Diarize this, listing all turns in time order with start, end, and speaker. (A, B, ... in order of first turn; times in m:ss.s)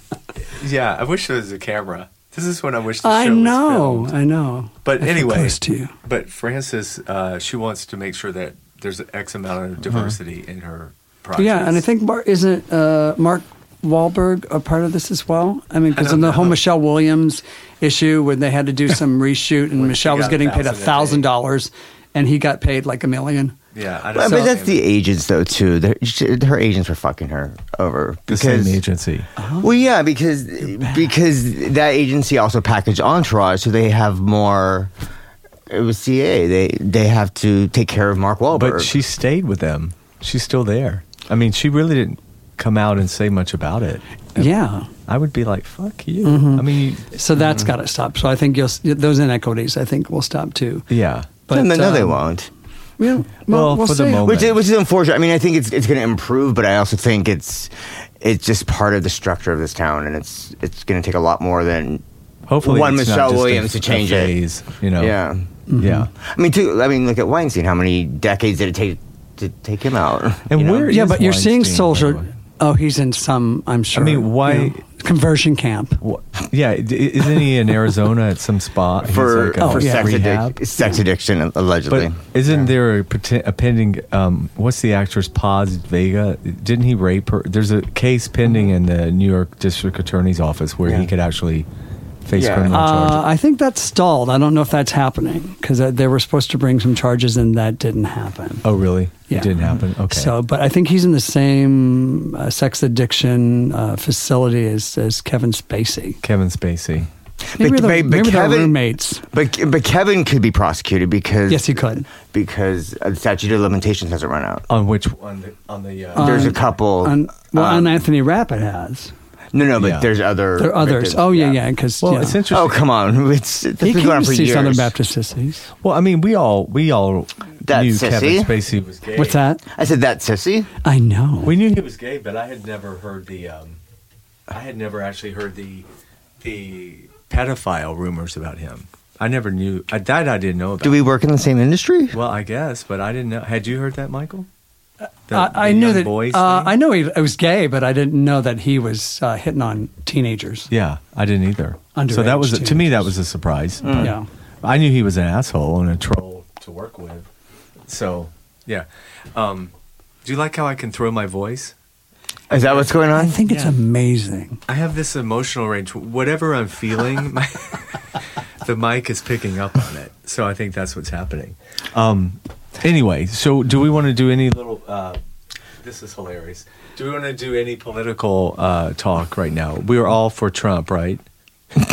0:00.4-0:04.1 A
0:03.0-0:05.9 B
0:04.8-0:11.8 A
0:09.9-0:10.1 C
0:11.4-0:23.5 B
0:15.9-0:16.6 A
0:19.7-0:21.3 A
0:23.7-0:24.8 A
0:24.1-0:28.8 C
0:28.3-0:29.3 A
0:29.4-0:29.7 B
0:29.6-0:34.9 C
0:30.8-0:31.0 B
0:35.7-0:38.9 C
0:38.5-0:44.5 A
0:44.4-0:44.9 B
0:45.1-0:47.7 A
0:46.2-0:50.8 B
0:50.9-0:51.4 A
0:51.5-0:52.2 B
0:51.5-0:52.5 C
0:53.0-0:54.3 B
0:53.5-0:54.6 A
0:54.2-1:02.0 C
1:02.5-1:05.2 A
1:02.6-1:04.3 C
1:05.0-1:05.5 C
1:05.7-1:06.1 B
1:05.8-1:06.1 A
1:06.1-1:11.0 C
1:10.5-1:12.3 A
1:10.9-1:16.0 B
1:13.9-1:14.8 A
1:16.0-1:20.6 A
1:19.0-1:22.7 C
1:19.6-1:20.3 B
1:21.9-1:31.7 A
1:32.2-1:33.3 A
1:32.3-1:32.8 C
1:32.7-1:38.6 B
1:38.6-1:40.3 A
1:39.3-1:46.2 B
1:46.2-1:47.1 A
1:47.5-1:48.8 C
1:47.6-1:49.2 B
1:49.3-1:54.6 C
1:51.5-1:52.1 B
1:54.7-1:56.7 A
1:56.2-1:59.1 B
1:56.2-1:58.0 C
1:59.5-2:01.6 C
1:59.8-2:00.1 A
2:00.6-2:02.4 B
2:02.0-2:02.9 A
2:02.5-2:04.9 C
2:03.8-2:05.7 B
2:05.8-2:09.4 A
2:07.6-2:08.5 C
2:09.2-2:09.6 B
2:09.7-2:10.7 C
2:10.8-2:11.5 B
2:11.4-2:13.8 A
2:14.5-2:15.8 A
2:16.4-2:21.1 A
2:20.8-2:22.2 C
2:22.1-2:24.5 A
2:25.3-2:26.8 A
2:25.3-2:30.7 B
2:30.7-2:37.3 A
2:31.9-2:33.1 B
2:33.8-2:34.1 C
2:33.9-2:34.2 B
2:37.9-2:39.7 A
2:40.2-2:41.7 A
2:42.5-2:43.4 C
2:42.5-2:43.7 A
2:43.1-2:44.6 B
2:44.7-2:55.2 A
2:55.8-3:01.2 A